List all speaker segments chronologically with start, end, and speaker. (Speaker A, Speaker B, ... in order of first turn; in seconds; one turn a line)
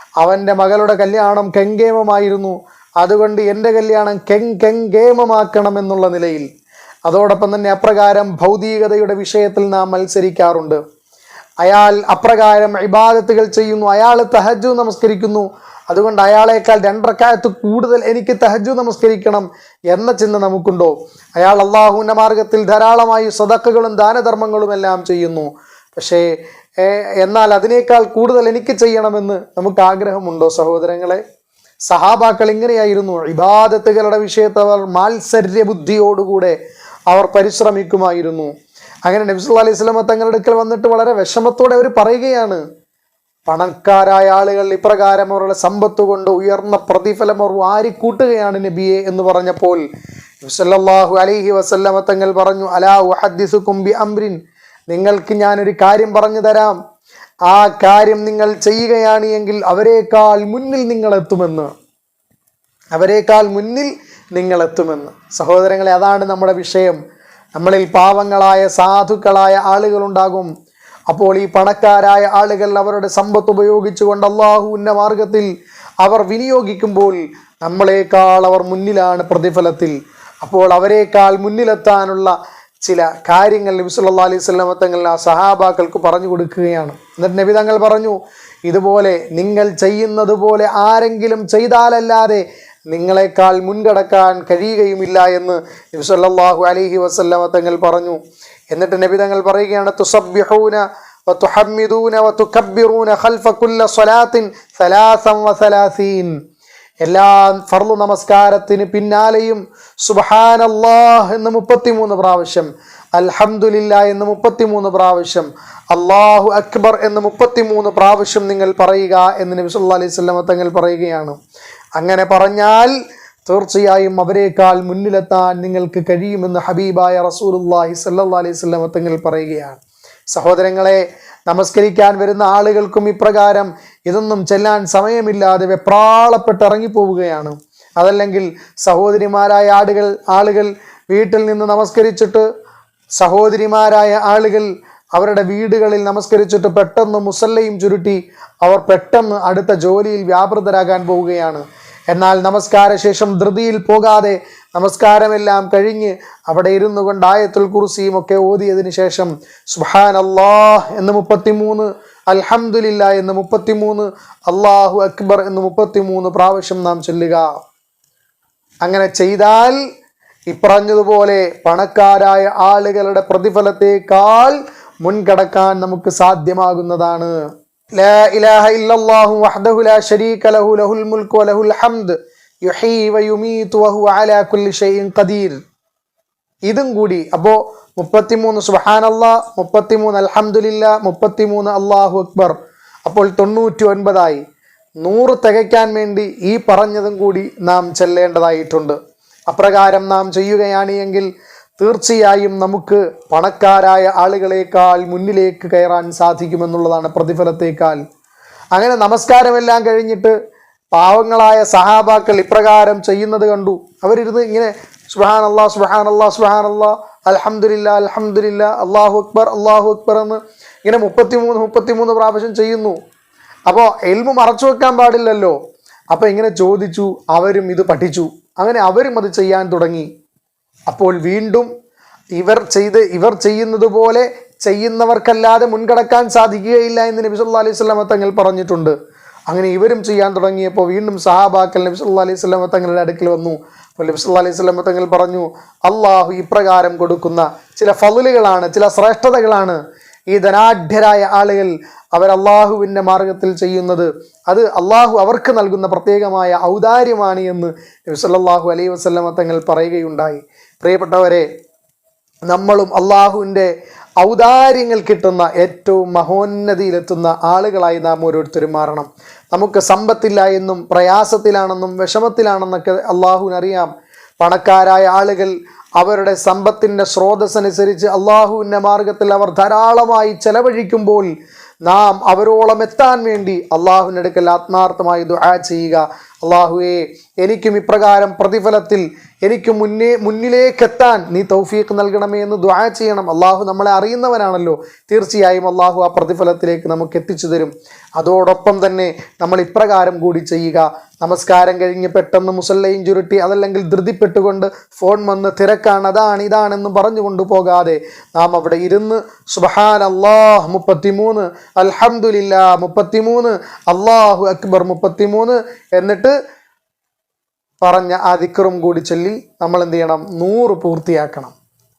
Speaker A: 0.2-6.5
Speaker A: 7.1-10.8
Speaker A: 11.6-26.2
Speaker A: 26.8-31.2
Speaker A: 31.9-36.6
Speaker A: 37.1-38.5
Speaker A: 39.1-42.6
Speaker A: 43.5-49.8
Speaker A: 50.4-54.4
Speaker A: 54.9-56.8
Speaker A: 57.5-61.7
Speaker A: 62.9-67.0
Speaker A: 67.6-70.5
Speaker A: 71.1-75.5
Speaker A: 76.0-82.3
Speaker A: 82.8-88.2
Speaker A: 88.7-98.2
Speaker A: 98.7-106.3
Speaker A: 107.0-121.4
Speaker A: 122.0-122.9
Speaker A: 123.5-129.8
Speaker A: 130.3-142.4
Speaker A: 143.2-167.4
Speaker A: 168.8-169.8
Speaker A: 170.5-177.3
Speaker A: 178.0-185.6
Speaker A: 186.7-192.6
Speaker A: 193.1-194.4
Speaker A: 195.0-199.0
Speaker A: 199.5-201.3
Speaker A: 201.8-208.0
Speaker A: 208.8-210.3
Speaker A: 210.9-222.9
Speaker A: 223.7-225.6
Speaker A: 226.1-230.1
Speaker A: 230.9-231.7
Speaker A: 232.4-238.9
Speaker A: 239.5-249.8
Speaker A: 250.3-261.4
Speaker A: 262.5-273.9
Speaker A: 274.4-281.3
Speaker A: 281.9-316.3
Speaker A: 317.8-321.5